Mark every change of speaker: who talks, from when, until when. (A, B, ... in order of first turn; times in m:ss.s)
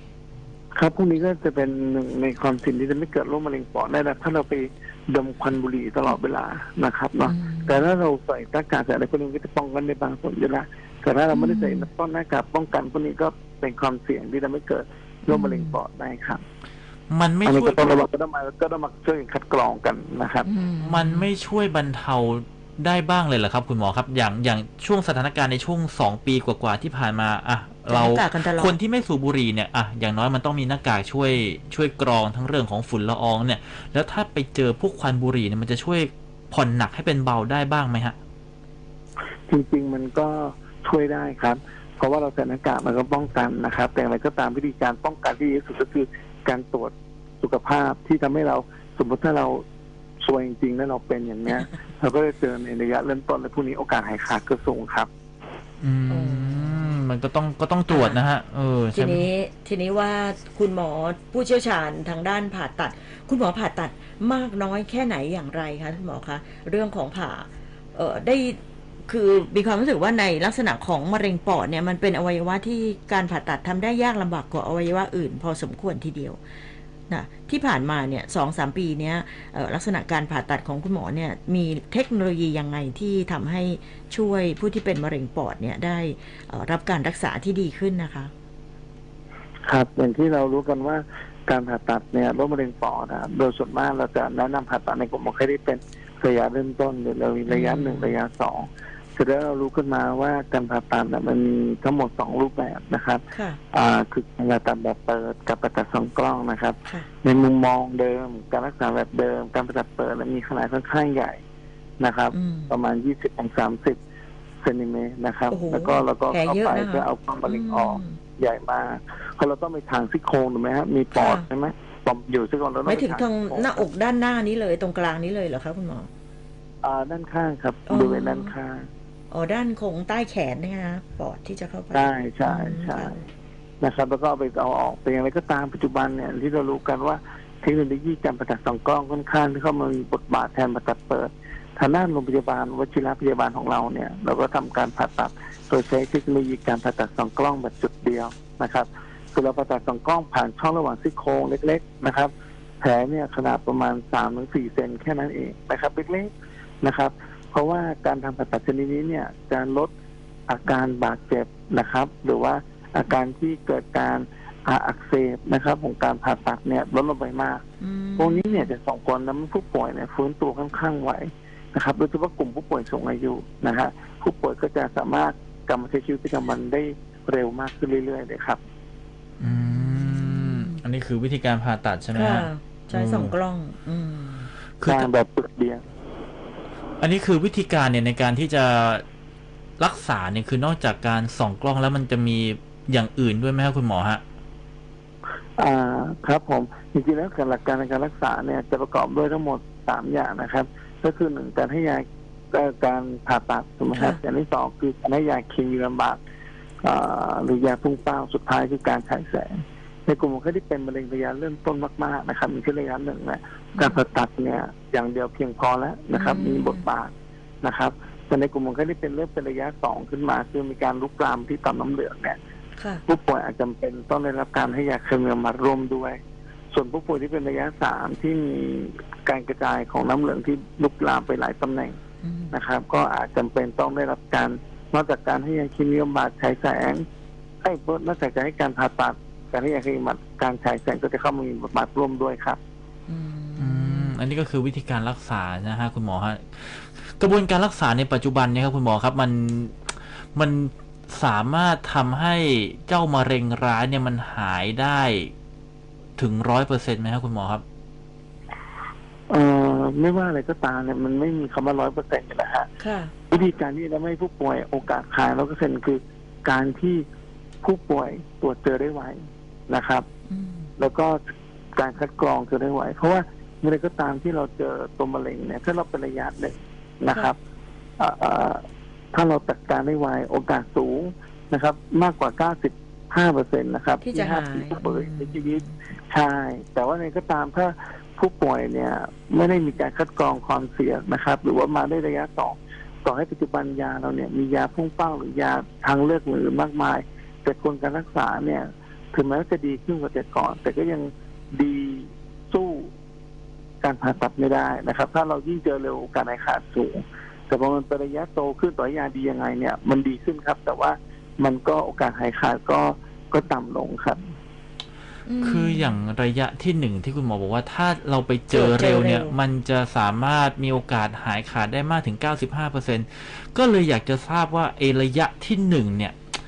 0:00.7-0:16.4 A
0:07.2-0:07.8 B
0:11.3-0:11.9 B
0:15.3-0:15.8 B
0:17.1-0:17.9 C
0:17.4-0:20.5 A
0:20.4-0:21.3 B
0:20.8-0:38.2 C
0:27.9-0:28.7 B
0:39.5-0:49.6 A
0:50.2-0:55.1 A
0:55.8-0:59.2 C
0:56.1-0:57.0 B
0:57.9-0:58.2 B
0:58.9-1:16.4 B
1:17.1-1:28.3 B
1:29.6-1:51.4 A
1:37.5-1:38.2 B
1:43.3-1:43.6 B
1:52.0-1:54.0 A
1:52.3-1:52.7 B
1:54.6-2:03.8 A
1:55.5-1:58.2 B
2:01.1-2:01.4 B
2:02.8-2:06.1 B
2:06.8-2:08.9 A
2:07.9-2:08.5 B
2:09.3-2:13.2 B
2:11.9-2:13.2 A
2:13.8-2:39.9 A
2:40.5-2:47.6 A
2:47.8-2:48.7 B
2:48.2-2:58.6 A
2:59.4-3:03.3 C
2:59.4-3:00.8 B
3:02.1-3:04.5 B
3:04.8-3:05.1 C
3:04.8-3:05.8 A
3:07.0-3:09.0 C
3:09.8-3:14.2 C
3:15.6-3:26.2 A
3:23.9-3:24.2 B
3:26.8-3:42.4 A
3:36.1-3:36.8 B
3:42.8-3:43.0 B
3:43.1-3:46.2 A
3:46.7-3:52.0 A
3:52.2-3:52.6 B
3:52.5-3:57.0 A
3:57.6-4:02.6 A
4:03.1-4:04.2 B
4:03.6-4:15.3 C
4:16.2-4:17.6 C
4:19.3-4:22.7 A
4:22.8-4:23.1 B
4:23.3-4:27.0 A
4:27.6-4:30.0 A
4:30.3-4:30.7 B
4:30.8-4:31.2 A
4:31.8-4:37.4 A
4:38.0-5:02.9 A
4:44.0-4:45.8 B
5:03.8-5:14.4 A
5:15.3-5:16.0 B
5:15.4-5:26.2 C
5:18.5-5:19.4 B